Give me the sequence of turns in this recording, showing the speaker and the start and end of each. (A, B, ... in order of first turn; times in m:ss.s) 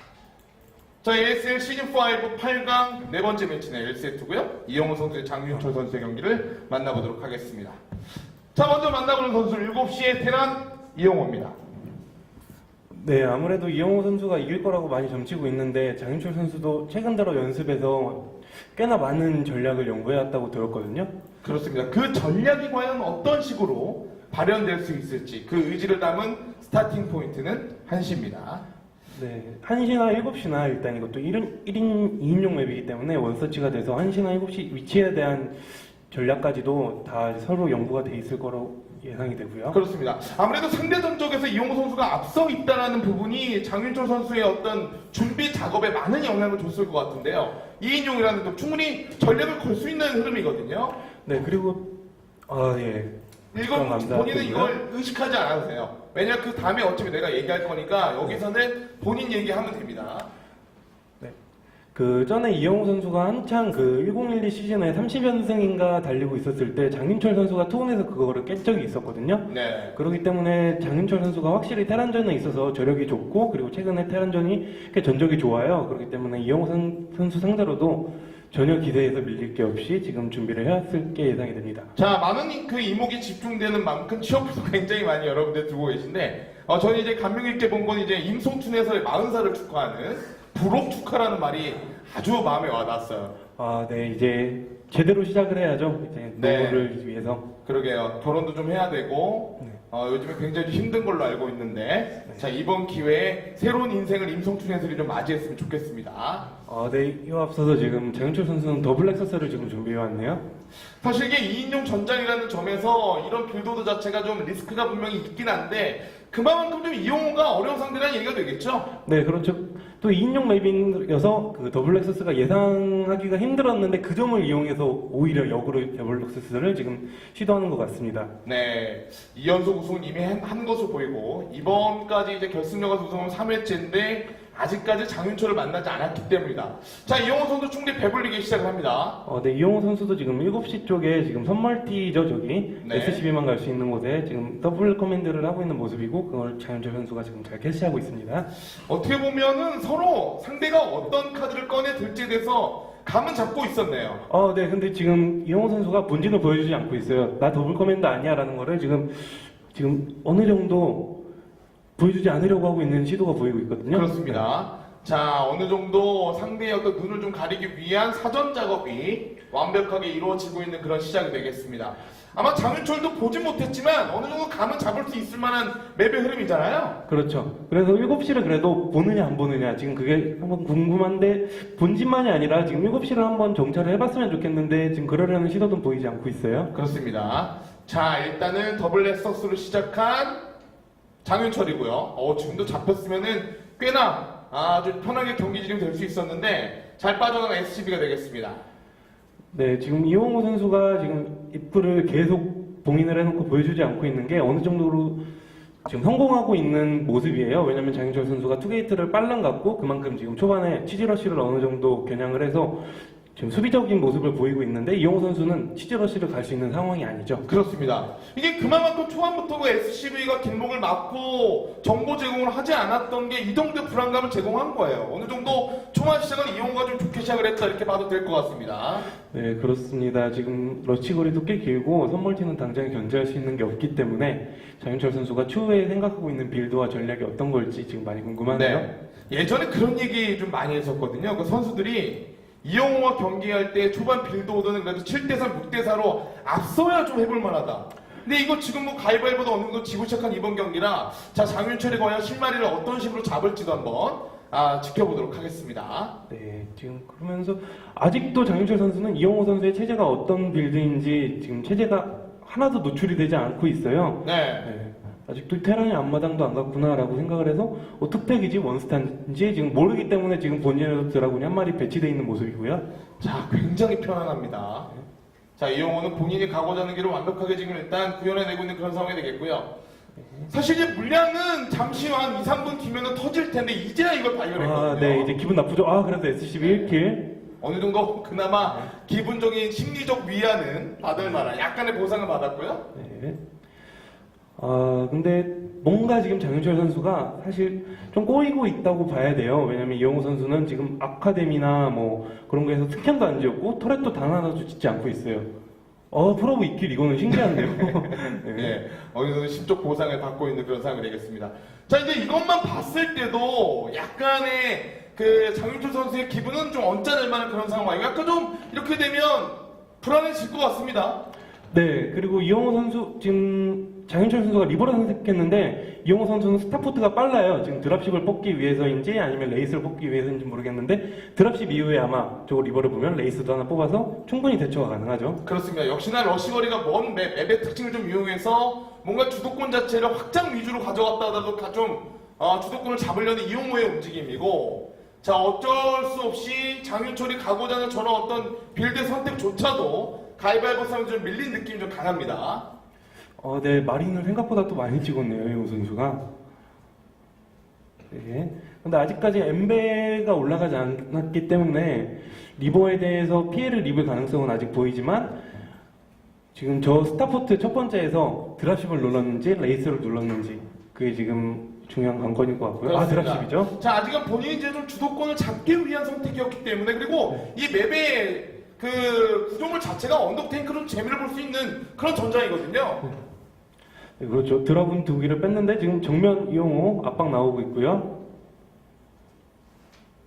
0:01.0-0:07.8 A
0:08.5-0:11.6 A
0:12.9-0:21.1 B
0:21.4-0:28.6 A
0:29.1-0:39.8 B
0:39.7-0:51.0 A
0:51.2-0:51.8 B
0:52.5-0:54.7 B
0:53.5-1:00.3 A
1:01.9-1:21.9 B
1:09.5-1:10.0 A
1:22.0-1:33.3 A
1:33.6-1:37.4 B
1:36.4-1:36.9 A
1:37.6-1:46.5 A
1:46.6-1:50.4 B
1:51.0-1:58.9 A
1:59.0-2:08.3 B
2:08.4-2:19.2 A
2:19.2-2:28.5 B
2:22.8-2:23.2 A
2:28.8-2:34.2 A
2:34.3-2:41.1 B
2:42.0-2:44.4 B
2:43.9-2:57.0 A
2:57.1-3:06.7 B
3:06.7-3:10.4 A
3:11.2-3:18.6 A
3:19.5-3:25.2 B
3:25.8-3:37.4 B
3:37.4-3:49.1 A
3:49.3-3:58.8 B
3:58.5-4:16.1 A
4:16.3-4:32.8 B
4:24.2-4:24.7 A
4:33.2-4:34.9 A
4:35.6-4:39.7 A
4:40.5-4:45.3 A
4:44.5-4:47.2 B
4:46.6-4:47.0 A
4:47.6-4:52.8 A
4:48.6-4:48.9 B
4:52.9-4:53.4 B
4:54.6-5:05.5 B
5:06.1-5:08.8 B
5:07.3-5:21.2 A
5:21.7-5:35.4 B
5:35.4-5:52.6 A
5:53.4-5:56.2 B
5:58.1-6:05.4 B
6:06.5-6:13.7 B
6:12.8-6:23.0 A
6:24.2-6:28.0 B